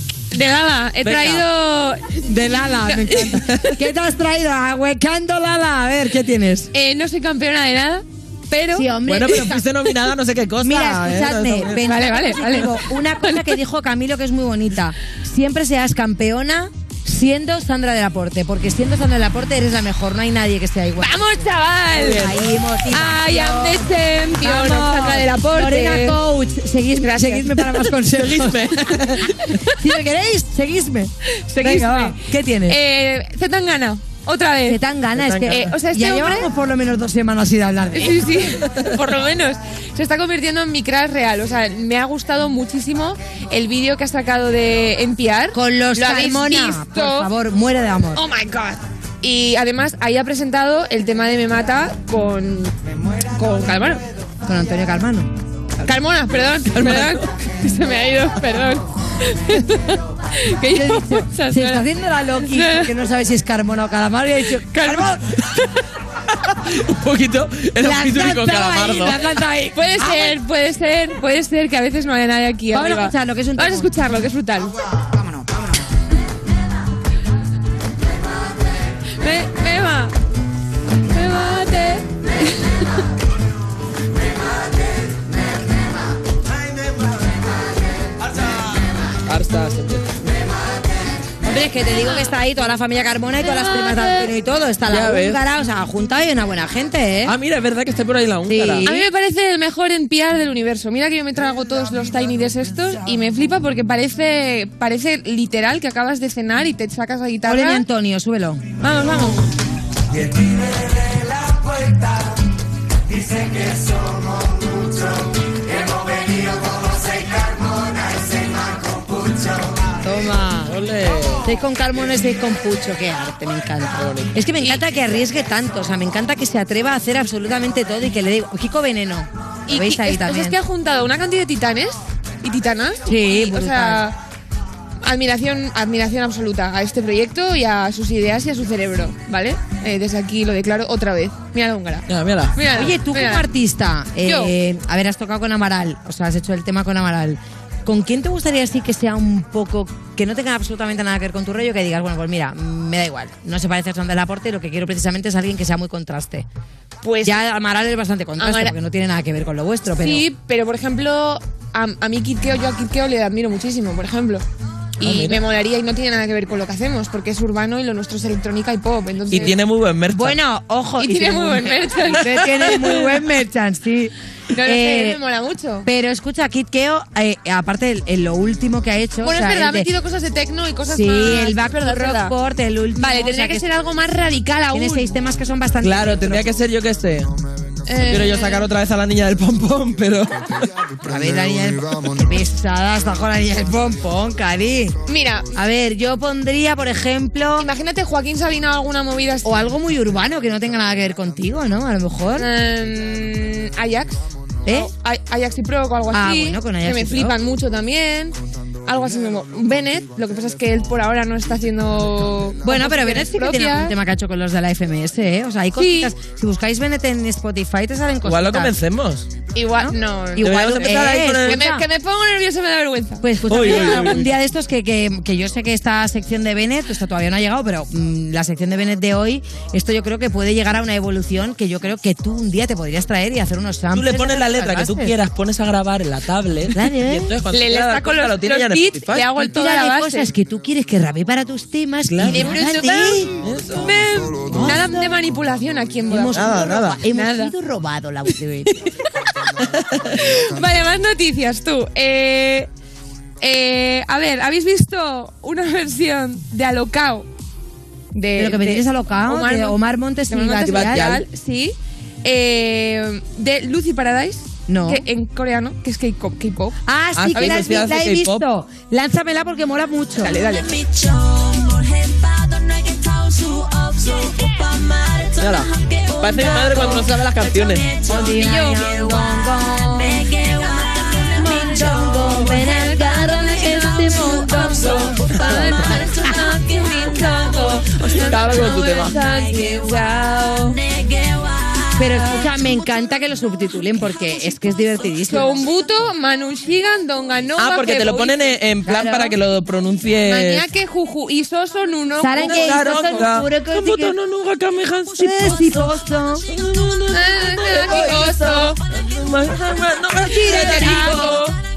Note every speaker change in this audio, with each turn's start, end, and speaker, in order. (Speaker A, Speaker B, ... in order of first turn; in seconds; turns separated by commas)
Speaker A: 0.3-2.2, Speaker B: 1.0-1.4, Speaker C: 2.2-6.7, Speaker A: 2.9-3.4, Speaker A: 6.7-8.9, Speaker C: 8.7-9.7, Speaker B: 9.1-11.8, Speaker C: 10.6-21.2, Speaker A: 11.8-13.5, Speaker A: 21.0-22.3, Speaker C: 22.0-28.7, Speaker B: 22.0-22.4, Speaker A: 22.9-26.2, Speaker A: 27.0-27.9, Speaker B: 28.1-29.6, Speaker C: 29.7-32.8, Speaker A: 31.5-34.8, Speaker C: 34.7-38.2, Speaker B: 35.2-35.7, Speaker A: 35.5-36.5, Speaker A: 37.9-47.3, Speaker C: 45.5-48.2, Speaker A: 48.1-52.7, Speaker A: 53.3-54.0, Speaker C: 54.4-55.3, Speaker A: 55.8-61.9, Speaker B: 56.7-57.2, Speaker C: 60.7-65.2, Speaker A: 62.5-62.9, Speaker A: 64.7-65.1, Speaker B: 66.5-69.2, Speaker C: 67.8-70.4, Speaker A: 69.7-74.7, Speaker C: 72.7-73.9, Speaker A: 79.2-80.1, Speaker A: 81.1-82.9, Speaker B: 89.3-90.1, Speaker C: 91.4-97.3, Speaker B: 94.9-95.4, Speaker B: 97.2-98.8, Speaker C: 98.5-99.1, Speaker A: 98.8-107.8, Speaker C: 107.4-108.7, Speaker A: 108.8-109.4, Speaker C: 120.0-120.8, Speaker B: 120.7-121.5, Speaker C: 121.4-130.6, Speaker B: 124.0-124.3, Speaker A: 129.7-134.2, Speaker C: 133.1-134.1, Speaker A: 135.0-143.4, Speaker B: 142.1-142.5, Speaker C: 142.7-156.5, Speaker A: 144.2-144.5, Speaker A: 157.0-157.4, Speaker C: 157.2-160.2, Speaker A: 158.4-158.7, Speaker A: 160.0-164.4, Speaker A: 165.0-169.6, Speaker B: 165.0-165.4, Speaker B: 169.3-170.4, Speaker C: 170.1-175.2, Speaker A: 171.0-173.1, Speaker A: 174.5-175.9, Speaker C: 175.8-179.9, Speaker A: 179.2-182.3, Speaker C: 180.9-183.7, Speaker A: 183.0-185.1, Speaker C: 184.7-186.5, Speaker B: 185.8-187.3, Speaker A: 187.9-188.6, Speaker B: 188.1-190.7, Speaker C: 191.1-194.9, Speaker A: 195.1-195.5, Speaker C: 195.5-197.7, Speaker A: 197.6-199.5, Speaker C: 199.4-202.5, Speaker A: 202.4-213.9, Speaker C: 204.7-204.9, Speaker C: 206.1-207.4, Speaker C: 212.6-218.7, Speaker A: 215.8-216.1, Speaker B: 218.2-219.3, Speaker A: 219.5-224.2, Speaker C: 219.8-221.8, Speaker B: 220.4-221.6, Speaker C: 223.2-235.1, Speaker B: 223.5-224.2, Speaker B: 233.9-239.3, Speaker C: 236.7-237.3, Speaker A: 237.5-240.3, Speaker C: 239.3-243.4, Speaker B: 242.1-242.8, Speaker A: 242.2-243.2, Speaker B: 243.4-243.9, Speaker A: 243.8-246.6, Speaker C: 244.4-245.2, Speaker C: 246.1-248.7, Speaker B: 246.3-247.0, Speaker A: 247.1-247.5, Speaker A: 250.1-252.7, Speaker A: 253.4-257.3, Speaker A: 258.1-259.8, Speaker C: 258.4-261.2, Speaker A: 260.3-266.8, Speaker B: 260.7-261.2, Speaker C: 264.7-265.0, Speaker C: 266.9-270.4, Speaker B: 267.2-268.4, Speaker A: 270.2-270.7, Speaker B: 275.4-277.9, Speaker A: 276.6-276.9, Speaker C: 278.0-286.2, Speaker A: 278.1-279.4, Speaker A: 281.5-290.8, Speaker B: 288.3-289.1, Speaker C: 292.0-295.6, Speaker A: 295.3-298.5, Speaker B: 297.6-300.6, Speaker C: 298.9-299.4, Speaker A: 300.3-303.3, Speaker C: 302.2-304.1, Speaker B: 302.4-305.8, Speaker C: 305.1-306.4, Speaker B: 306.5-311.4, Speaker A: 307.1-308.8, Speaker C: 310.2-311.4, Speaker A: 310.4-311.5